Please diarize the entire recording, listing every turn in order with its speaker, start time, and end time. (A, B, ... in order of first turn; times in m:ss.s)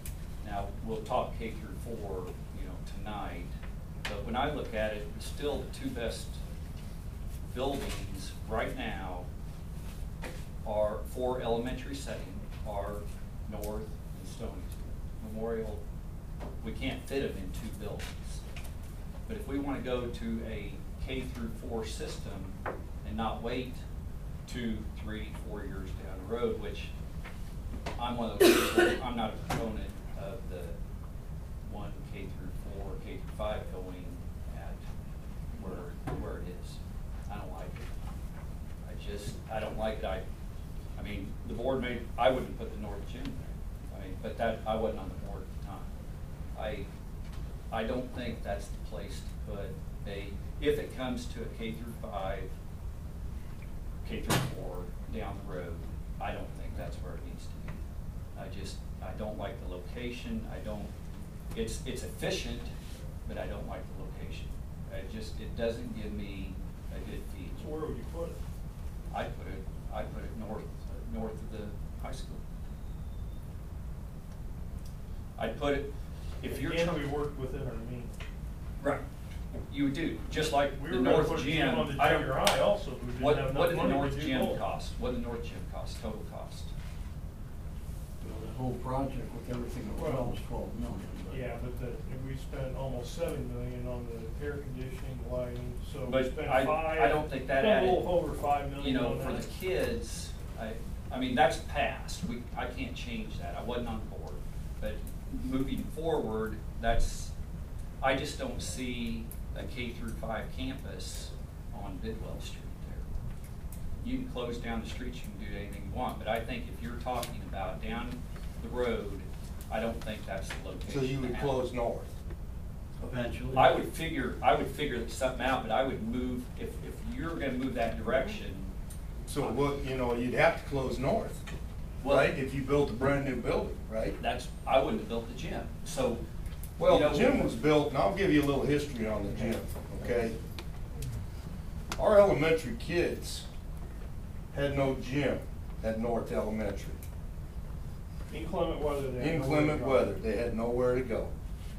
0:00.4-0:03.5 A
0:04.0-0:06.4 A
0:07.5-0:09.3 A
0:10.6-0:15.8 A
0:16.6-0:18.4 A
0:19.3-0:23.8 A
0:24.4-0:26.9 A
0:28.0-0:30.8 A
0:31.6-0:34.8 A
0:35.5-0:37.9 A
0:38.8-0:40.2 A
0:41.0-0:45.9 A
0:46.5-0:46.9 A
0:47.7-0:52.5 A
0:54.0-0:57.8 A
0:58.4-1:00.9 A
1:01.5-1:02.7 A
1:03.2-1:07.6 A
1:07.6-1:08.4 B
1:09.1-1:12.4 A
1:15.4-1:17.0 A
1:16.5-1:18.1 B
1:19.7-1:22.3 A
1:20.7-1:24.6 B
1:23.2-1:26.7 A
1:28.2-1:31.4 C
1:29.9-1:30.4 B
1:31.3-1:39.5 B
1:36.1-1:38.1 A
1:38.8-1:47.3 A
1:48.0-1:53.1 A
1:54.0-2:01.6 A
2:00.9-2:02.1 D
2:03.0-2:03.8 C
2:03.5-2:08.7 A
2:09.2-2:11.4 D
2:09.4-2:09.7 A
2:12.0-2:12.3 A
2:12.0-2:14.2 D
2:14.2-2:16.2 A
2:16.8-2:20.4 D
2:16.8-2:17.5 A
2:22.0-2:23.4 D
2:24.5-2:27.0 D
2:28.3-2:30.2 B
2:29.2-2:31.3 D